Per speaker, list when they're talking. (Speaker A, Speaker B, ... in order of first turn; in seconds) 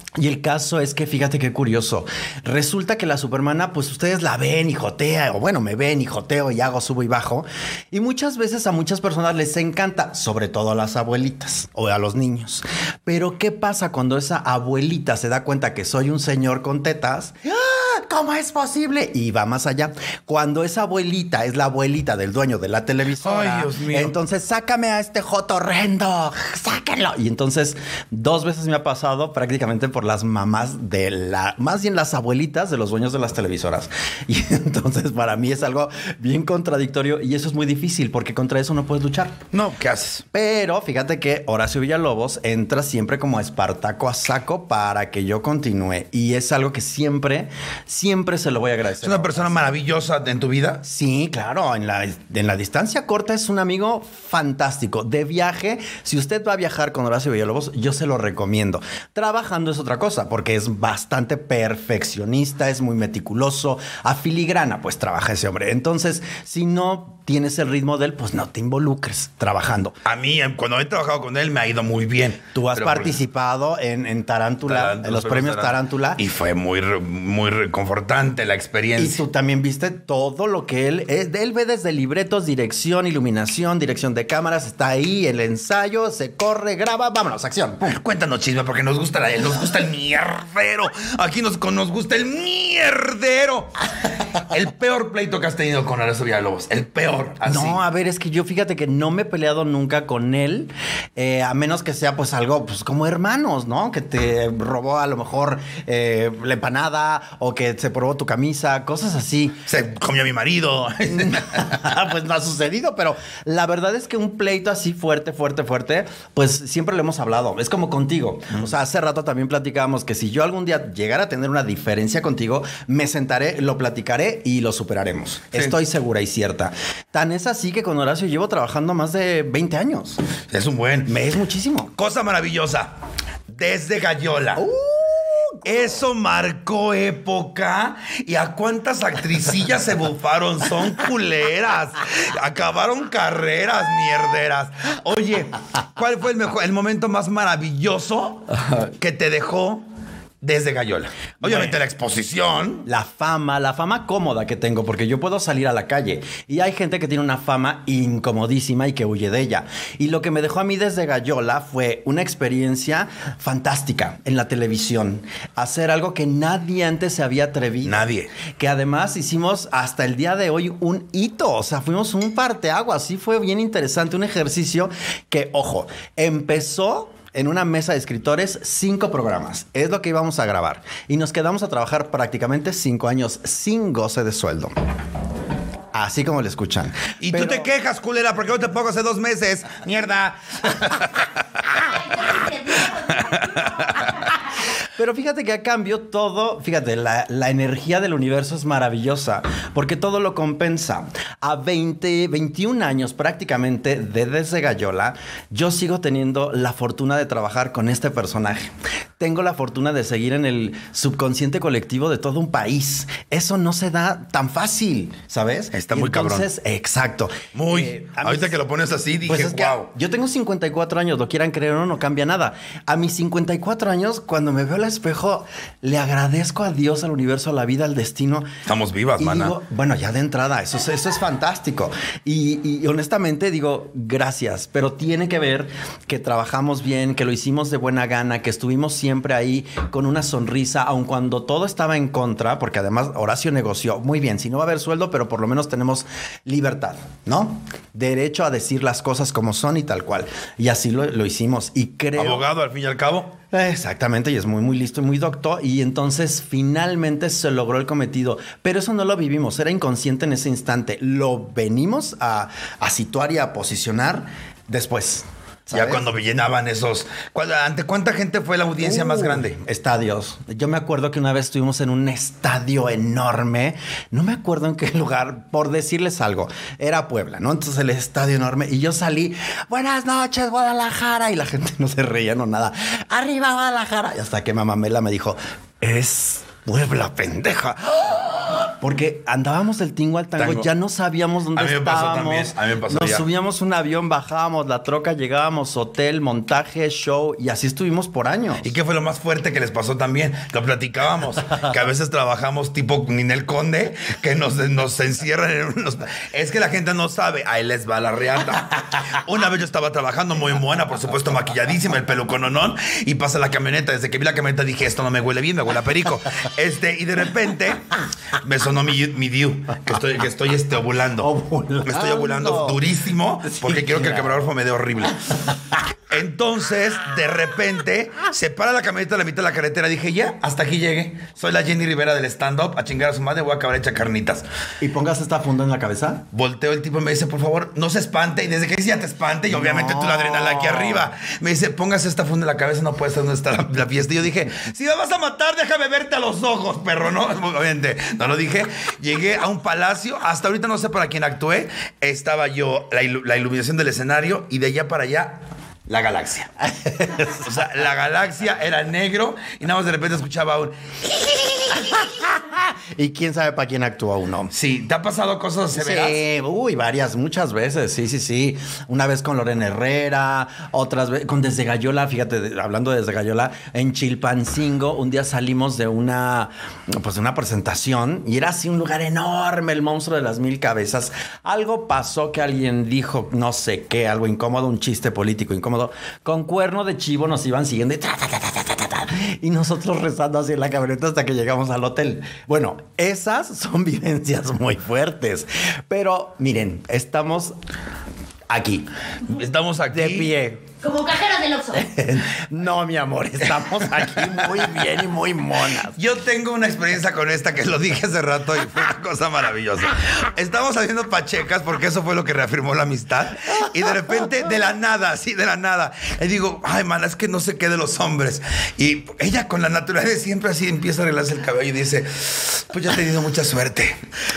Speaker A: 0.2-39.4, 40.3-49.5, 50.8-70.0, 72.5-76.2, 79.0-88.0, 97.5-109.6, 111.1-130.2, 131.1-131.9, 134.6-135.8, 151.4-151.8, 152.8-168.0, 168.6-184.7, 185.9-187.7, 195.0-218.6, 219.2-228.5, 229.2-252.4, 253.5-266.0, 268.8-298.7, 321.2-322.8, 323.4-324.4, 334.8-336.2, 339.5-341.1, 356.6-357.5, 362.2-364.5, 365.7-397.5, 398.5-398.9, 399.9-400.6, 401.7-406.0
Speaker B: 23.2-24.1, 39.5-40.2, 49.0-50.8, 70.0-73.2, 74.7-79.2, 87.9-97.8, 109.7-111.8, 130.5-131.2, 131.9-132.9, 133.5-134.6, 135.6-149.8, 150.4-152.8, 167.8-168.3, 187.2-191.7, 193.1-194.3, 215.7-216.5, 217.5-219.9, 228.7-229.6, 252.2-253.3, 265.7-269.6, 290.4-290.7, 291.5-293.2, 298.6-317.9, 318.4-321.3, 321.9-325.3, 326.1-334.4, 336.3-356.5, 357.4-362.1, 364.5-366.2, 399.2-400.3, 405.9-424.0
Speaker C: 191.7-194.4, 400.8-401.8